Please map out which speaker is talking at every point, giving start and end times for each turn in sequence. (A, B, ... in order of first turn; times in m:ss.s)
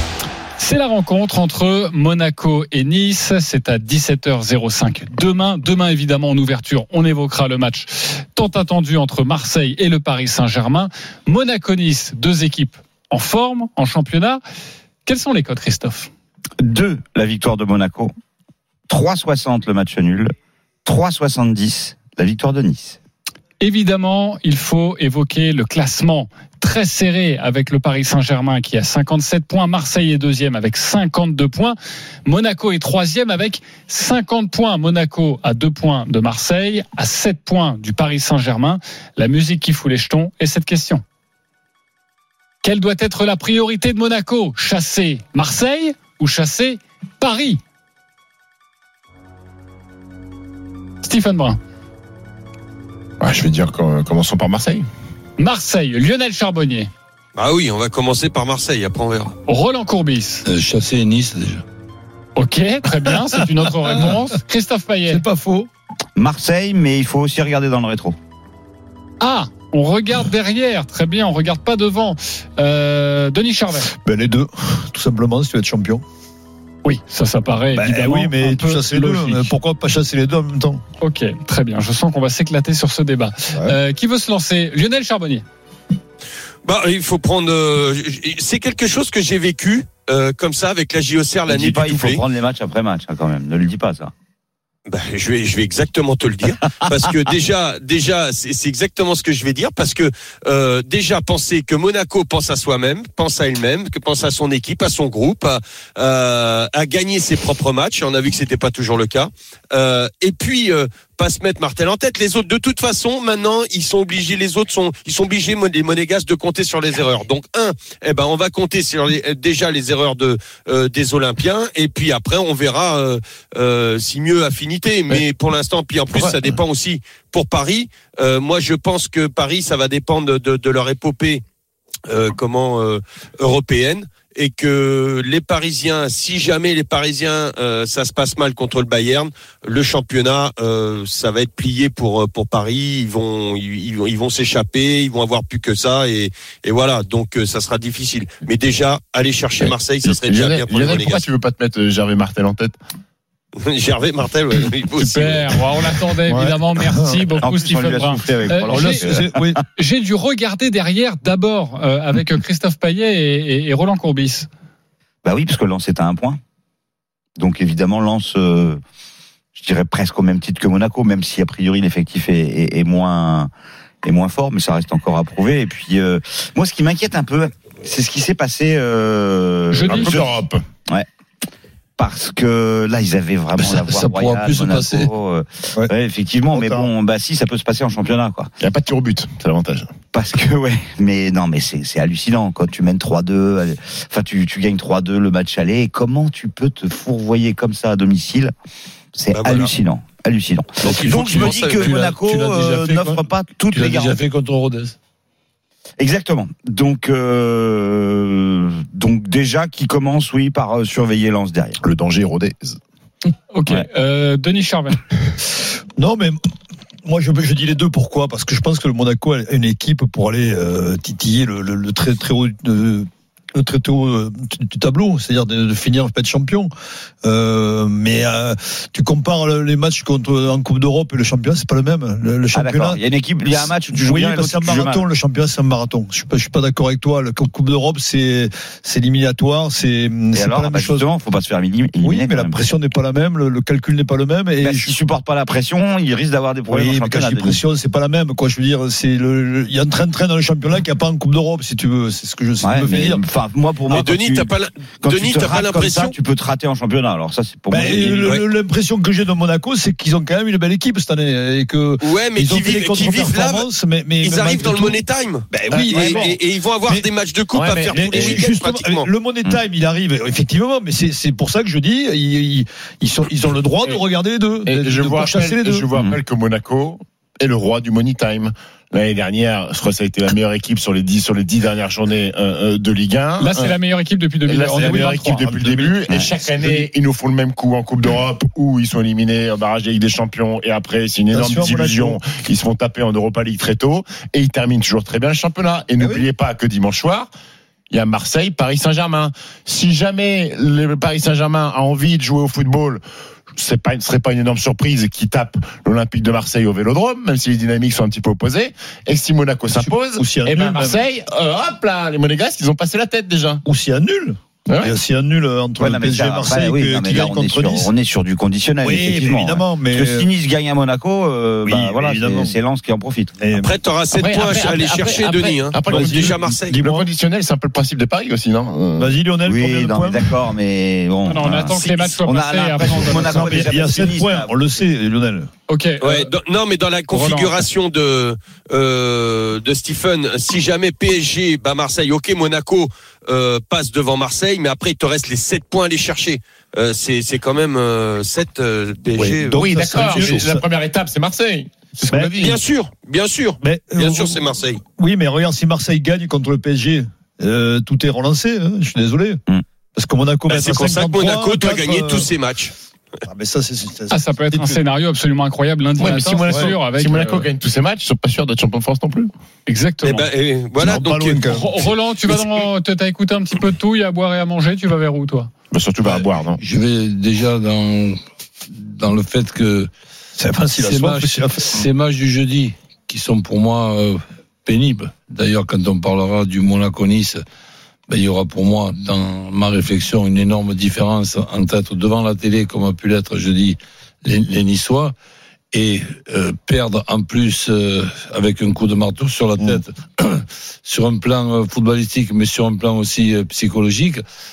0:00.6-0:14.4 A
0:15.0-0:16.1 A
0:16.6-0:18.1 B
0:18.9-0:20.3 B
0:20.8-0:23.0 B
0:23.6-0:41.0 A
0:42.6-0:47.6 A
0:51.0-0:51.6 A
0:53.2-0:54.8 C
0:55.4-0:56.9 A
0:57.3-0:59.3 D
0:59.5-1:00.4 A
1:00.4-1:01.6 E
1:02.4-1:05.2 A
1:05.2-1:05.5 E
1:05.2-1:05.6 F
1:06.2-1:08.1 B
1:09.2-1:13.9 A
1:13.9-1:16.0 F
1:16.8-1:19.5 A
1:17.7-1:20.8 F
1:21.0-1:25.4 A
1:26.6-1:32.2 D
1:31.5-1:34.1 B
1:34.9-2:11.4 D
2:06.2-2:06.6 C
2:12.1-2:31.2 D
2:29.6-2:32.7 C
2:33.6-2:35.5 D
2:35.0-2:39.1 A
2:37.4-2:39.5 B
2:38.7-2:39.6 F
2:39.7-2:44.5 A
2:45.2-2:46.4 B
2:47.4-2:48.8 B
2:49.5-2:53.5 B
2:54.0-3:00.3 B
2:59.7-3:00.1 A
2:59.8-3:00.6 C
3:02.0-3:08.5 B
3:03.6-3:05.1 E
3:08.6-3:09.9 C
3:10.1-3:18.5 B
3:19.1-3:24.2 B
3:19.3-3:19.7 D
3:20.8-3:25.0 E
3:20.8-3:21.9 D
3:26.0-3:31.8 B
3:31.8-3:32.8 C
3:33.5-3:35.0 A
3:36.0-3:36.4 F
3:37.0-3:46.7 F
3:47.2-3:53.0 F
3:52.5-3:55.0 B
3:53.9-4:01.0 F
4:00.3-4:02.6 B
4:02.0-4:04.9 F
4:04.6-4:07.6 B
4:06.7-4:13.2 F
4:12.6-4:14.5 B
4:13.9-4:16.1 D
4:15.0-4:18.4 B
4:17.7-4:27.1 F
4:22.0-4:23.7 D
4:24.2-4:29.1 D
4:25.9-4:26.2 B
4:27.5-4:28.4 C
4:27.9-4:35.9 F
4:34.6-4:43.8 C
4:43.4-4:45.4 A
4:44.5-4:57.3 C
4:44.7-4:46.8 F
4:51.3-4:52.2 F
4:56.0-4:56.3 F
4:57.9-5:13.6 C
5:09.7-5:11.1 F
5:13.6-5:17.9 F
5:14.7-5:14.9 C
5:15.8-5:23.3 B
5:18.8-5:20.3 F
5:21.6-5:22.6 F
5:23.4-5:23.7 F
5:23.6-5:26.8 D
5:24.1-5:29.1 C
5:25.8-5:27.1 F
5:29.0-5:30.2 F
5:29.4-5:34.5 B
5:31.2-5:33.5 A
5:33.1-5:35.5 F
5:35.7-5:36.3 A
5:36.0-5:50.3 D
5:37.1-5:37.6 A
5:49.2-5:50.6 F
5:49.5-5:52.6 C
5:52.0-5:52.5 F
5:52.4-5:54.8 D
5:53.6-5:59.4 F
5:59.9-6:02.3 F
6:00.5-6:02.7 D
6:03.3-6:04.8 F
6:04.1-6:07.5 A
6:06.0-6:09.3 C
6:06.5-6:06.7 F
6:09.7-6:10.3 A
6:10.0-6:11.4 D
6:10.8-6:11.8 F
6:11.5-6:15.5 A
6:15.7-6:16.6 C
6:16.6-6:18.2 E
6:18.7-6:19.9 E
6:20.4-6:21.8 F
6:20.8-6:27.4 E
6:28.1-6:35.1 E
6:35.7-6:44.2 E